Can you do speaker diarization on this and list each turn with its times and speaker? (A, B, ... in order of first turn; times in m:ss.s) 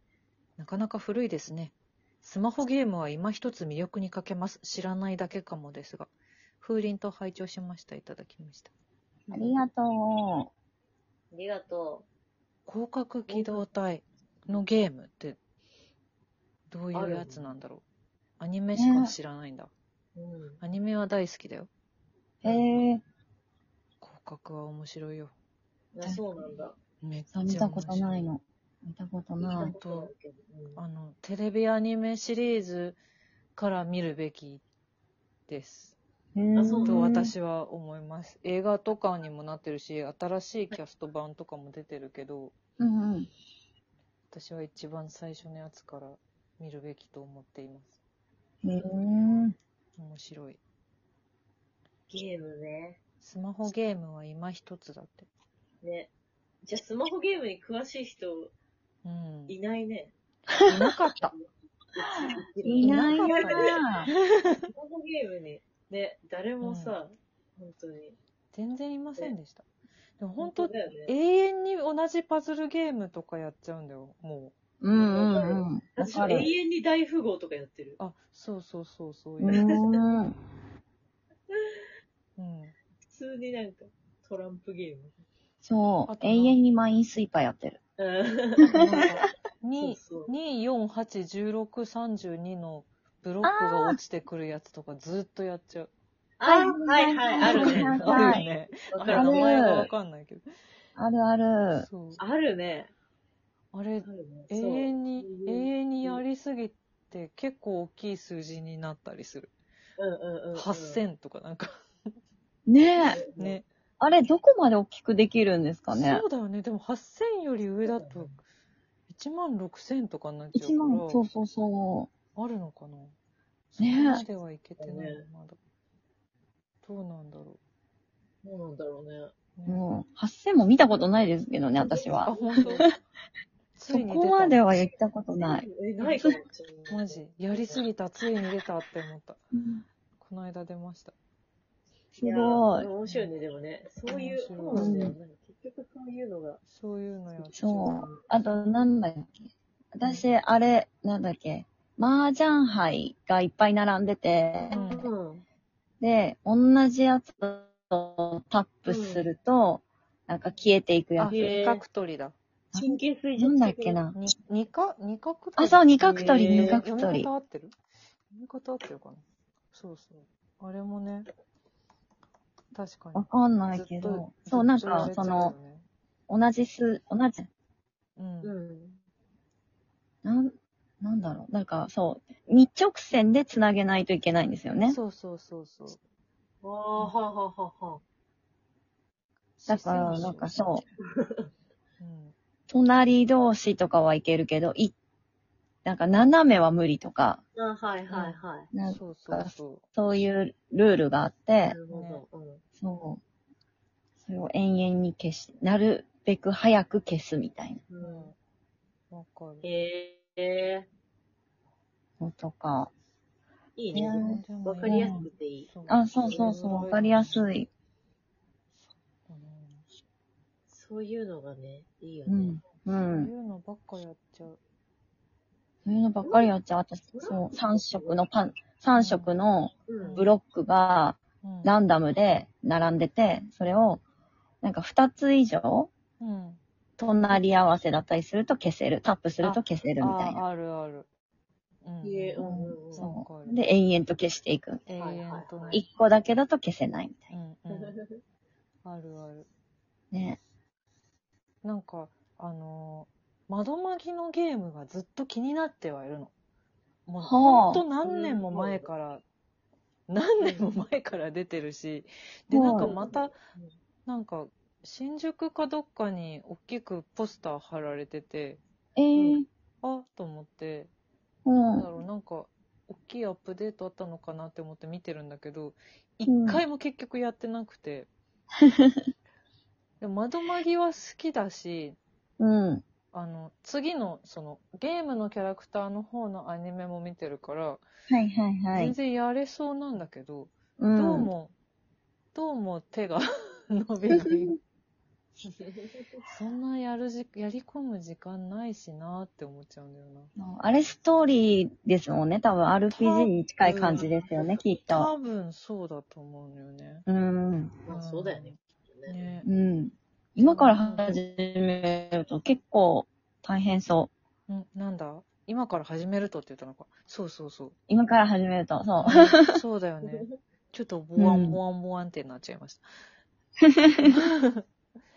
0:00.6-0:08.7 A
0:09.3-0:09.6 B
0:09.3-0:10.5 C
0:11.3-0:12.1 B
0:12.7-0:15.4 A
0:13.3-0:13.6 B
0:16.7-0:17.8 A
0:16.9-0:17.4 B
0:18.4-0:19.7 A
0:18.7-0:19.1 C
0:20.2-0:20.6 B
0:20.6-0:21.7 A
0:22.4-0:23.0 C
0:22.4-0:22.7 B
0:24.0-0:25.3 A
0:25.9-0:26.8 B
0:26.0-0:26.5 C
0:27.0-0:28.3 A
0:27.3-0:29.7 C
0:29.4-0:30.8 B
0:29.8-0:30.1 A
0:30.8-0:33.0 A
0:33.6-0:34.6 A
0:35.5-0:36.0 A
0:36.3-0:37.3 C
0:36.5-0:37.0 B
0:36.8-0:42.5 A
0:42.8-0:43.3 C
0:44.3-0:48.0 A
0:48.6-0:49.6 C
0:50.0-0:50.6 A
0:52.1-0:53.0 B
0:53.2-0:55.3 A
0:55.8-0:56.1 B
0:56.6-0:58.5 B
0:59.0-0:59.6 A
0:59.5-1:00.1 B
1:00.6-1:01.3 A
1:01.9-1:03.8 B
1:02.2-1:04.1 C
1:02.8-1:04.7 A
1:04.7-1:08.2 B
1:06.6-1:07.0 A
1:08.5-1:09.6 A
1:10.2-1:14.5 A
1:10.4-1:11.1 B
1:14.8-1:16.5 C
1:14.9-1:18.0 B
1:18.0-1:19.6 A
1:19.4-1:20.3 C
1:19.5-1:20.0 B
1:21.5-1:21.8 B
1:22.4-1:22.7 A
1:23.1-1:25.1 B
1:25.6-1:27.8 C
1:26.1-1:26.6 A
1:28.0-1:28.8 B
1:28.7-1:35.9 A
1:29.8-1:30.3 B
1:33.4-1:34.0 C
1:36.4-1:39.5 B
1:36.5-1:38.4 C
1:37.4-1:40.4 A
1:39.1-1:39.9 C
1:41.0-1:41.9 C
1:41.8-1:42.2 A
1:42.2-1:42.9 B
1:43.7-1:49.5 A
1:44.0-1:46.2 B
1:50.0-1:51.0 B
1:50.5-1:51.7 A
1:52.7-1:53.2 C
1:53.0-1:53.6 B
1:53.4-1:53.6 A
1:54.0-1:56.2 C
1:55.9-1:58.4 A
1:57.8-1:58.4 B
1:59.1-2:01.2 A
2:00.5-2:02.1 C
2:02.3-2:03.1 A
2:03.7-2:05.6 A
2:03.8-2:04.2 C
2:04.8-2:05.2 B
2:06.8-2:07.6 A
2:08.4-2:09.3 B
2:09.6-2:09.8 A
2:09.6-2:12.9 C
2:11.8-2:12.9 B
2:12.2-2:12.9 A
2:13.8-2:14.6 A
2:13.9-2:15.6 C
2:15.4-2:17.8 B
2:16.0-2:19.4 A
2:19.5-2:19.8 C
2:20.2-2:21.1 A
2:22.2-2:22.9 C
2:22.2-2:26.6 B
2:23.0-2:23.3 A
2:24.1-2:25.0 A
2:24.7-2:25.1 C
2:26.7-2:28.0 A
2:27.5-2:34.7 C
2:27.9-2:28.2 B
2:34.7-2:35.4 B
2:34.7-2:35.1 A
2:36.0-2:41.4 C
2:38.8-2:39.3 B
2:41.2-2:42.4 A
2:41.3-2:41.8 B
2:42.7-2:44.0 B
2:42.7-2:44.2 C
2:44.1-2:47.7 A
2:45.6-2:47.3 C
2:46.0-2:46.8 B
2:48.3-2:51.3 A
2:52.7-2:55.8 A
2:53.1-2:55.5 C
2:56.3-2:57.5 C
2:58.2-2:58.5 A
2:58.4-2:59.0 B
3:00.2-3:05.0 C
3:04.8-3:06.0 A
3:06.6-3:08.0 B
3:09.6-3:10.6 A
3:09.7-3:10.8 C
3:11.1-3:11.5 B
3:12.0-3:12.3 A
3:12.7-3:14.9 C
3:15.8-3:17.4 C
3:17.5-3:18.7 B
3:18.1-3:19.8 A
3:18.7-3:21.8 C
3:21.6-3:22.6 B
3:21.9-3:22.2 A
3:22.8-3:23.2 C
3:24.2-3:27.8 C
3:27.9-3:28.3 B
3:28.0-3:28.3 A
3:29.1-3:29.6 A
3:29.6-3:30.9 B
3:32.2-3:32.9 C
3:33.8-3:36.9 B
3:33.9-3:35.2 C
3:34.0-3:37.4 A
3:35.9-3:37.7 C
3:38.7-3:39.9 A
3:40.7-3:42.6 B
3:42.3-3:43.3 C
3:42.9-3:44.6 A
3:45.8-3:54.0 C
3:46.2-3:46.5 B
3:47.1-3:48.2 B
3:48.9-3:49.3 A
3:49.9-3:50.3 B
3:50.0-3:50.3 A
3:51.4-3:51.7 A
3:54.6-3:55.9 C
3:56.2-3:56.6 A
3:57.0-4:00.4 C
3:59.4-4:01.1 A
4:01.8-4:02.4 A
4:02.0-4:03.1 B
4:02.4-4:04.8 C
4:02.9-4:03.6 A
4:04.9-4:05.8 A
4:05.0-4:05.8 B
4:05.7-4:07.3 C
4:07.3-4:08.0 A
4:07.7-4:08.2 B
4:08.8-4:09.5 A
4:10.1-4:10.4 C
4:11.6-4:16.3 A
4:17.0-4:19.2 A
4:17.2-4:17.8 C
4:18.0-4:18.9 B
4:20.1-4:23.3 A
4:20.4-4:20.7 B
4:22.5-4:22.9 C
4:22.7-4:23.7 B
4:24.0-4:28.6 A
4:29.0-4:29.5 C
4:29.1-4:29.4 B
4:29.8-4:30.9 A
4:31.4-4:31.9 C
4:31.7-4:38.1 A
4:36.2-4:36.6 C
4:38.6-4:38.9 C
4:40.0-4:42.0 A
4:42.4-4:42.8 C
4:43.1-4:47.8 A
4:48.1-4:48.9 C
4:48.7-4:51.5 A
4:50.8-4:51.3 C
4:52.3-4:54.6 A
4:55.4-4:56.2 B
4:56.2-5:00.3 A
5:00.4-5:05.1 C
5:02.9-5:04.0 A
5:03.6-5:04.2 B
5:04.9-5:07.0 A
5:07.1-5:07.8 C
5:07.8-5:09.4 B
5:07.9-5:09.4 A
5:09.4-5:14.1 C
5:10.4-5:11.2 A
5:14.5-5:17.7 A
5:17.9-5:19.6 C
5:19.0-5:22.9 A
5:20.0-5:20.3 B
5:21.2-5:21.6 C
5:23.6-5:24.1 C
5:24.0-5:24.6 A